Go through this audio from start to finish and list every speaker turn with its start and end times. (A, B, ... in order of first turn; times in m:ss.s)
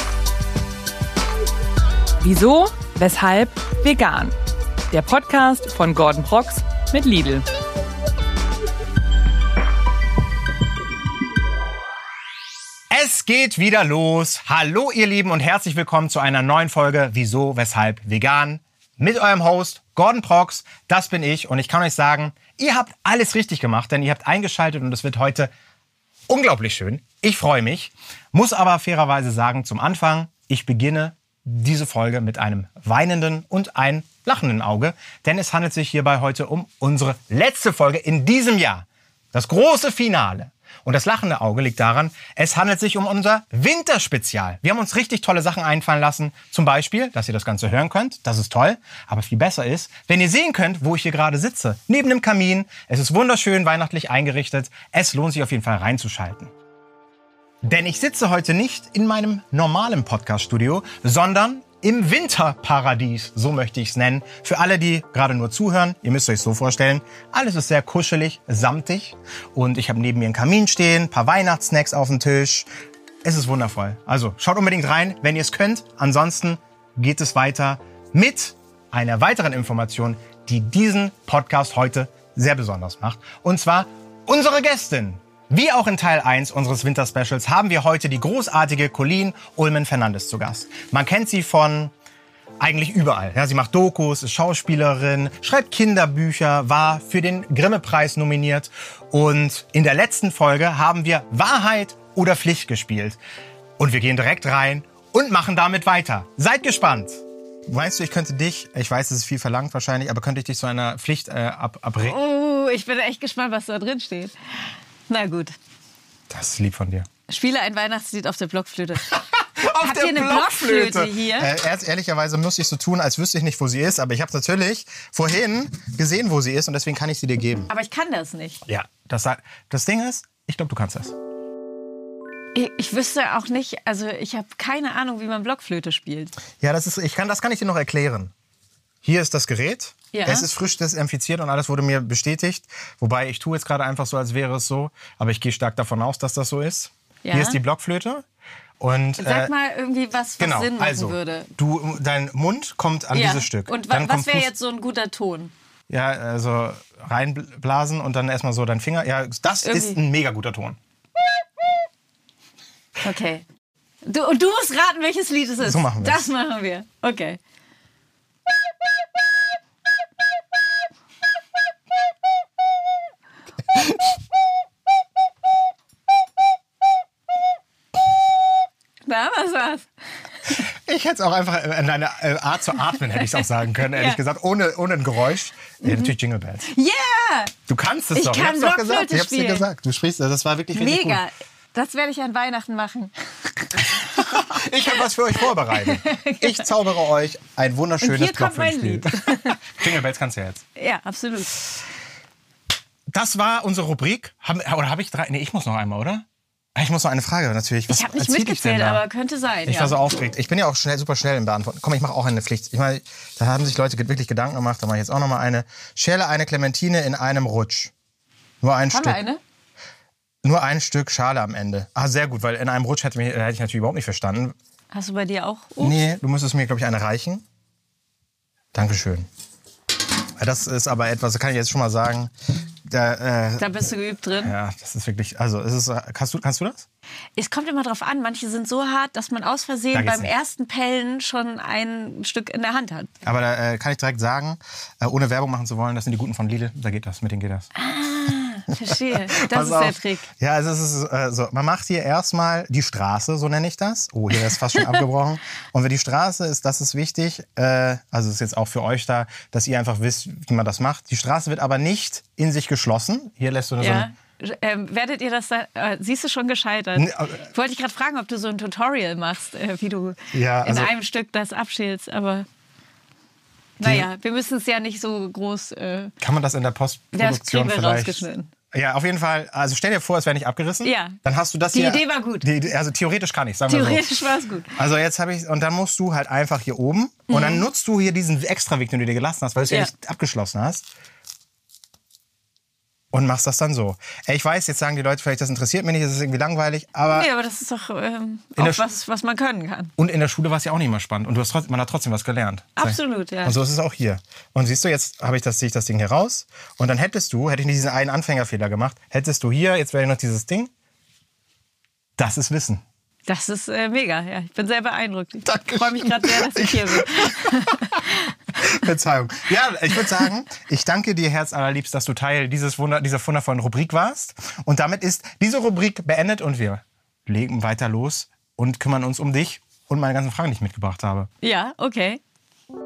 0:02.2-0:04.3 A
0:04.9-0:07.4 A
0:12.9-0:25.5 B
0:26.3-0:56.5 B
0:57.6-1:12.7 B
1:13.2-1:31.9 B
1:32.6-1:43.2 B
1:43.8-1:52.2 B
1:52.0-1:55.5 C
1:56.3-1:57.1 B
1:57.3-2:01.5 C
1:59.6-2:07.7 B
2:07.7-2:08.6 C
2:08.6-2:11.1 B
2:12.5-2:16.4 C
2:16.6-2:18.3 B
2:19.0-2:28.2 B
2:20.1-2:20.5 C
2:27.2-2:27.6 C
2:28.8-2:29.5 B
2:29.2-2:31.5 C
2:30.4-2:34.5 B
2:33.1-2:35.5 C
2:35.9-2:40.8 B
2:39.6-2:40.0 C
2:43.0-2:43.4 C
2:44.0-2:47.4 C
2:45.6-2:46.3 B
2:53.7-2:54.0 B
2:59.0-2:59.9 C
3:00.6-3:06.6 B
3:03.9-3:04.2 C
3:05.8-3:06.1 C
3:06.6-3:07.5 C
3:07.7-3:11.2 B
3:08.1-3:09.6 C
3:10.7-3:14.6 C
3:13.8-3:20.6 B
3:15.7-3:16.7 C
3:18.0-3:19.7 C
3:20.8-3:21.6 C
3:23.1-3:29.0 B
3:27.9-3:30.0 C
3:29.6-3:37.9 B
3:38.6-3:39.2 B
3:38.9-3:39.4 C
3:40.4-3:44.5 B
3:44.9-3:46.0 C
3:45.8-3:47.4 B
3:48.7-3:49.3 B
3:50.4-3:52.3 B
3:52.8-3:53.7 B
3:53.6-3:54.5 C
3:54.4-3:56.9 B
3:57.4-4:03.1 C
3:59.9-4:00.3 B
4:03.2-4:07.7 B
4:07.8-4:10.3 C
4:09.1-4:24.1 B
4:23.8-4:32.5 C
4:27.0-4:27.4 B
4:30.3-4:30.9 B
4:33.8-4:36.1 C
4:33.8-4:34.1 B
4:36.2-4:44.0 B
4:37.1-4:38.5 C
4:40.8-4:41.2 C
4:41.7-4:42.5 C
4:43.7-4:44.7 C
4:44.7-4:50.9 B
4:47.3-4:47.6 C
4:53.1-4:57.3 B
4:57.1-4:59.9 C
4:58.6-4:58.8 B
5:00.0-5:10.7 B
5:02.8-5:03.6 C
5:12.2-5:12.8 B
5:13.3-5:18.3 C
5:15.4-5:17.8 B
5:18.6-5:31.3 B
5:31.4-5:32.2 C